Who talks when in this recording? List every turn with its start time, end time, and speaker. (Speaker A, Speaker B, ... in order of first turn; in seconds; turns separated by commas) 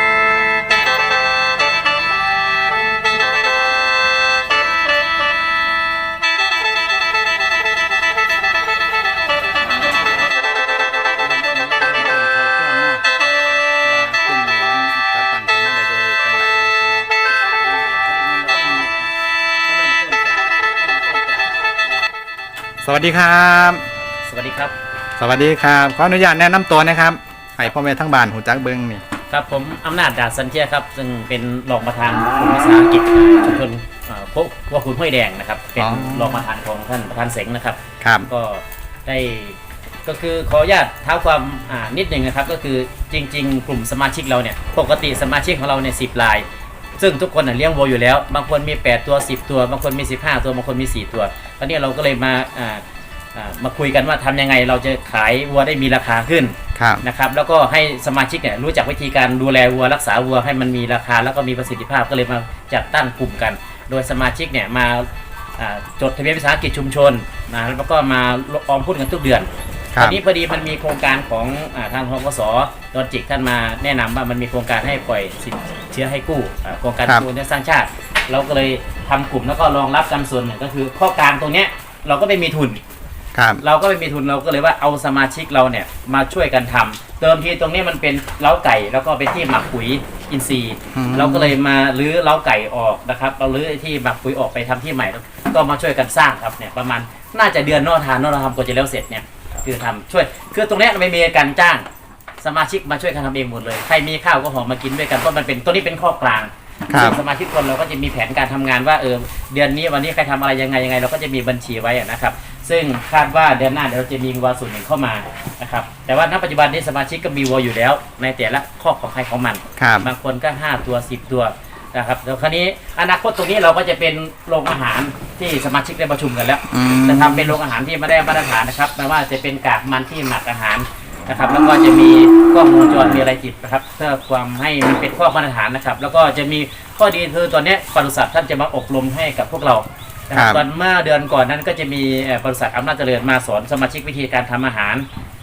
Speaker A: 11.2-13.1, Speaker A: 13.8-17.1, Speaker B: 17.3-19.1, Speaker B: 19.6-21.7, Speaker A: 22.8-23.9, Speaker B: 24.2-24.7, Speaker A: 25.2-29.0, Speaker B: 29.3-46.5, Speaker A: 35.8-36.4, Speaker A: 38.0-38.3, Speaker B: 47.0-52.8, Speaker B: 53.4-82.8, Speaker A: 56.8-57.0, Speaker A: 69.9-70.2, Speaker A: 83.3-83.6, Speaker B: 83.6-101.9, Speaker A: 90.9-91.5, Speaker B: 102.4-145.1, Speaker A: 106.9-107.2, Speaker A: 119.8-120.1, Speaker A: 126.7-127.6, Speaker A: 140.3-140.6